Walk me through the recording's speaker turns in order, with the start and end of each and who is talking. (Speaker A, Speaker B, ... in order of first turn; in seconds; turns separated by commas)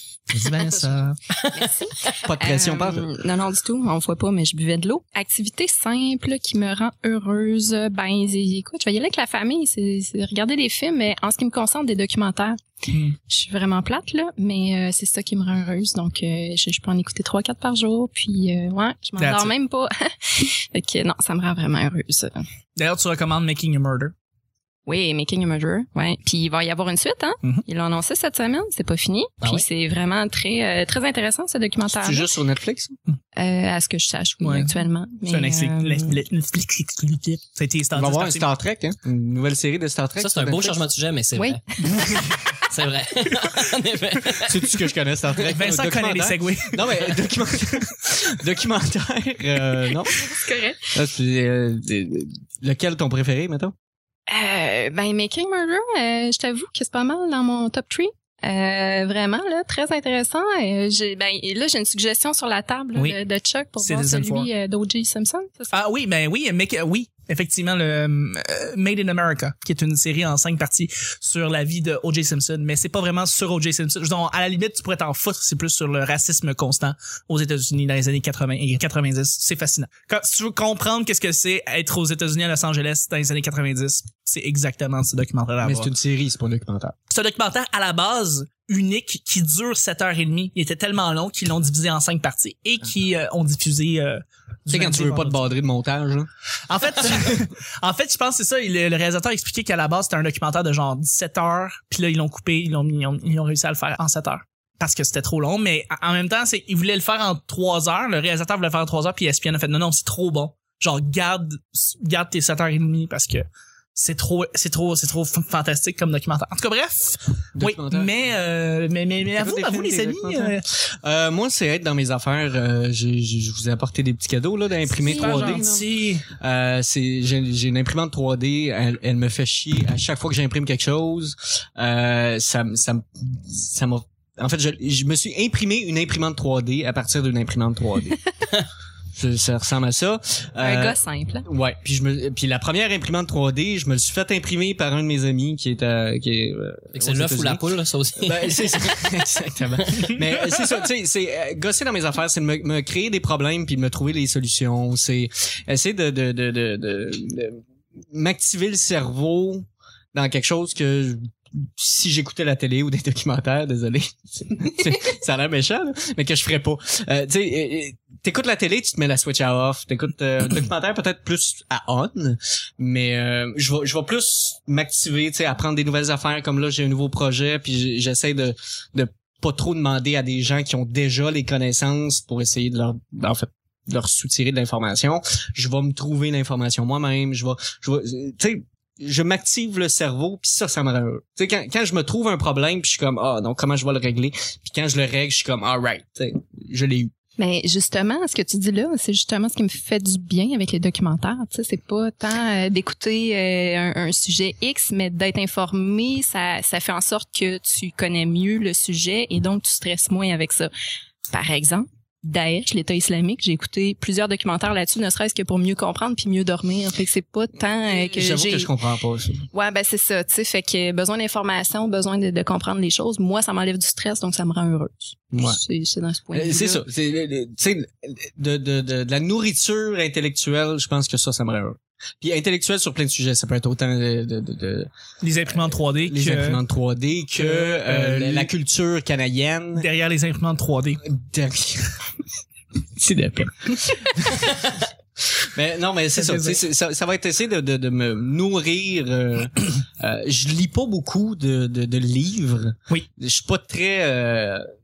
Speaker A: 0.3-1.2, Speaker B: 1.3-2.2, Speaker C: 1.5-12.6, Speaker D: 2.2-3.1, Speaker A: 12.9-13.2, Speaker C: 13.3-22.4, Speaker A: 19.2-19.5, Speaker A: 22.8-24.1, Speaker C: 24.9-32.3, Speaker D: 32.0-33.0, Speaker C: 33.4-36.2, Speaker A: 34.4-38.5, Speaker D: 38.0-40.8, Speaker B: 40.2-41.6, Speaker B: 42.7-44.6, Speaker A: 43.3-43.6, Speaker D: 44.5-53.7, Speaker A: 45.5-46.8, Speaker C: 50.1-50.9, Speaker C: 54.3-65.7, Speaker A: 63.8-64.5, Speaker A: 65.7-85.9, Speaker D: 85.6-87.0, Speaker A: 87.1-95.5, Speaker D: 94.7-96.3, Speaker A: 96.7-113.5, Speaker A: 114.0-120.6, Speaker D: 117.6-118.1, Speaker D: 119.4-138.2, Speaker A: 124.9-126.3, Speaker C: 125.2-125.6, Speaker D: 139.2-147.7, Speaker C: 140.6-141.5, Speaker B: 146.9-148.8, Speaker D: 148.2-197.1, Speaker C: 197.4-210.7, Speaker C: 211.3-218.7, Speaker D: 217.9-219.4, Speaker C: 219.5-226.8, Speaker D: 225.3-225.6, Speaker D: 226.3-234.9, Speaker A: 235.2-236.6, Speaker D: 235.5-239.9, Speaker A: 237.4-238.5, Speaker A: 239.8-241.0, Speaker D: 241.0-242.0, Speaker D: 243.0-244.7, Speaker D: 245.2-254.7, Speaker A: 246.2-246.6